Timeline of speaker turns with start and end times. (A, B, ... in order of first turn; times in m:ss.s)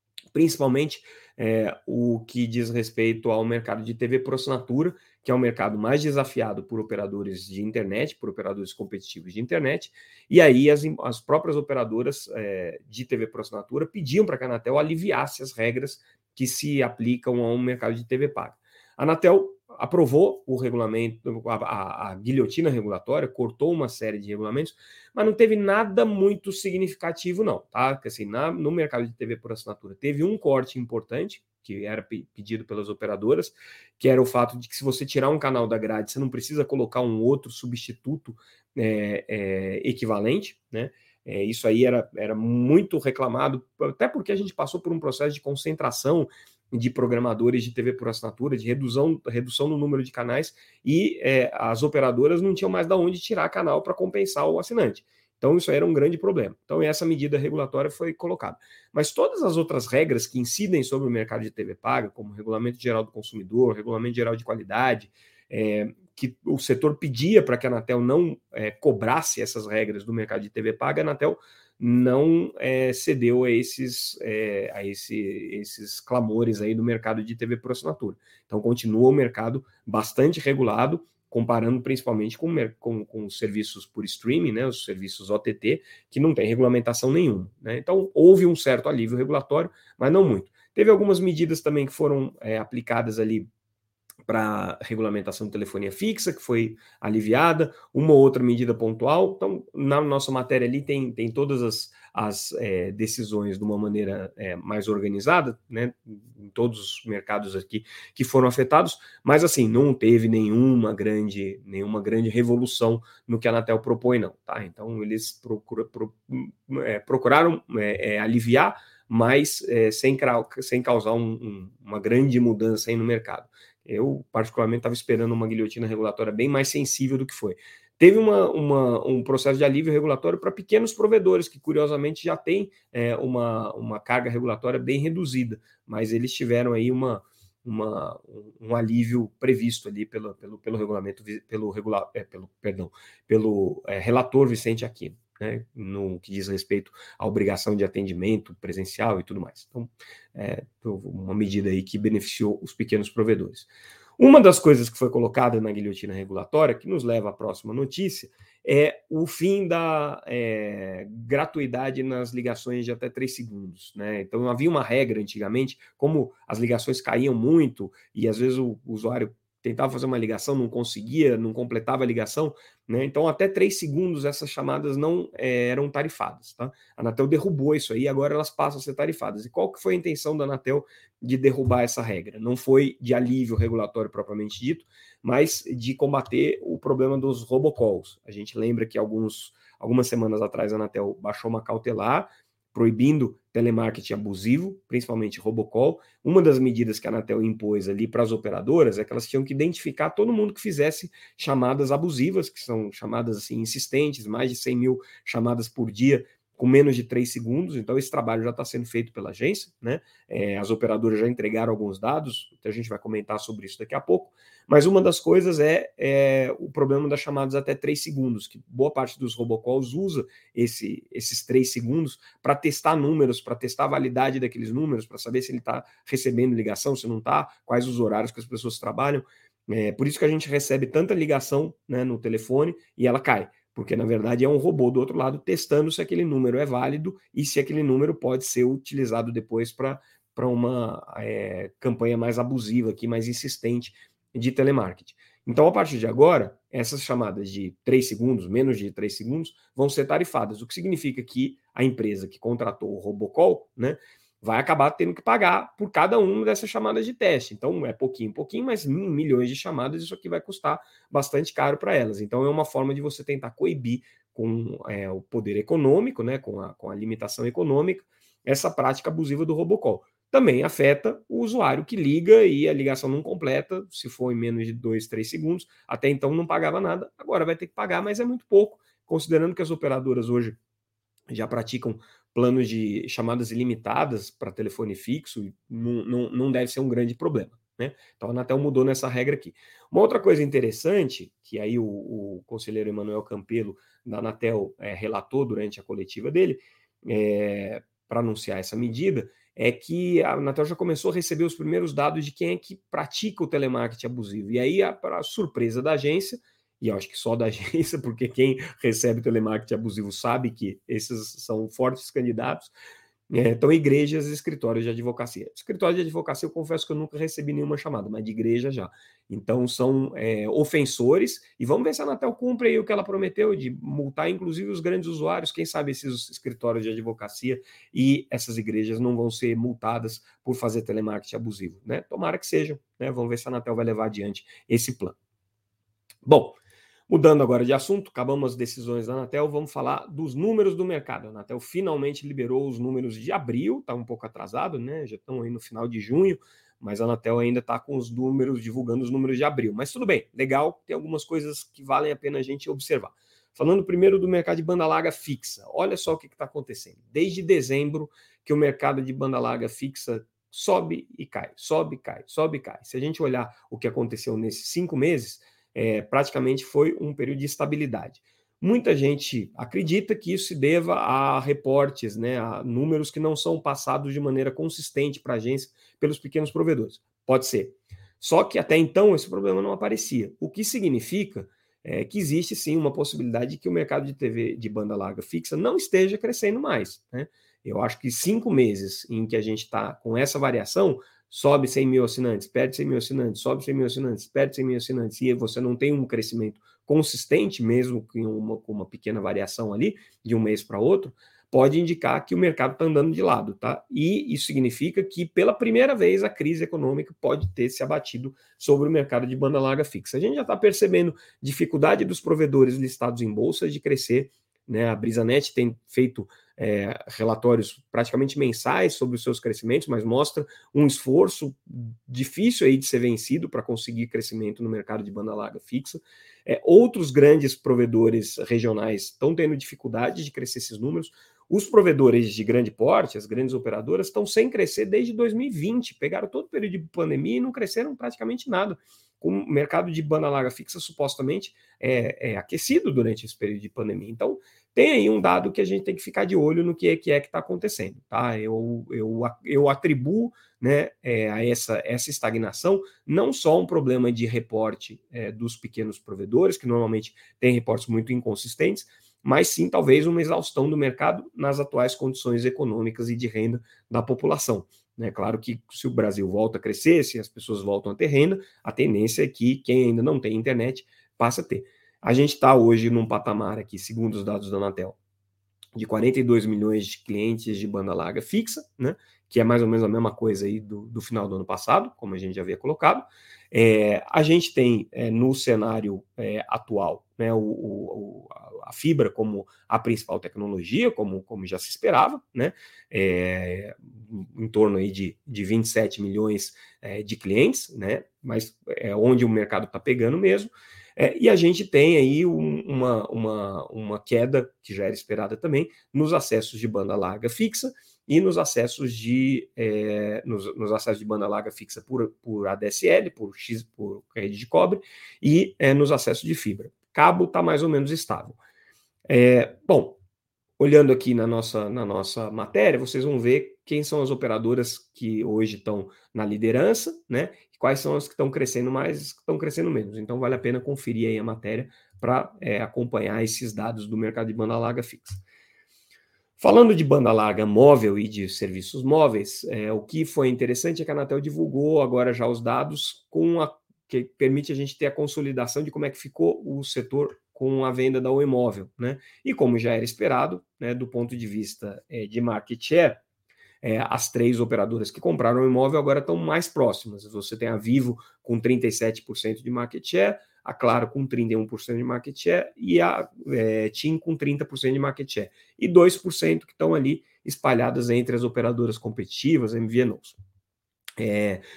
0:00.3-1:33.5 A
1:34.3-4:40.6 A
4:41.3-5:12.7 A
5:13.3-5:35.2 A
5:36.3-5:36.6 A
5:37.1-7:55.0 A
7:55.8-8:38.4 A
8:39.1-8:40.0 A
8:40.6-8:55.2 A
8:56.4-9:13.0 A
9:13.6-9:30.2 A
9:31.0-9:31.4 A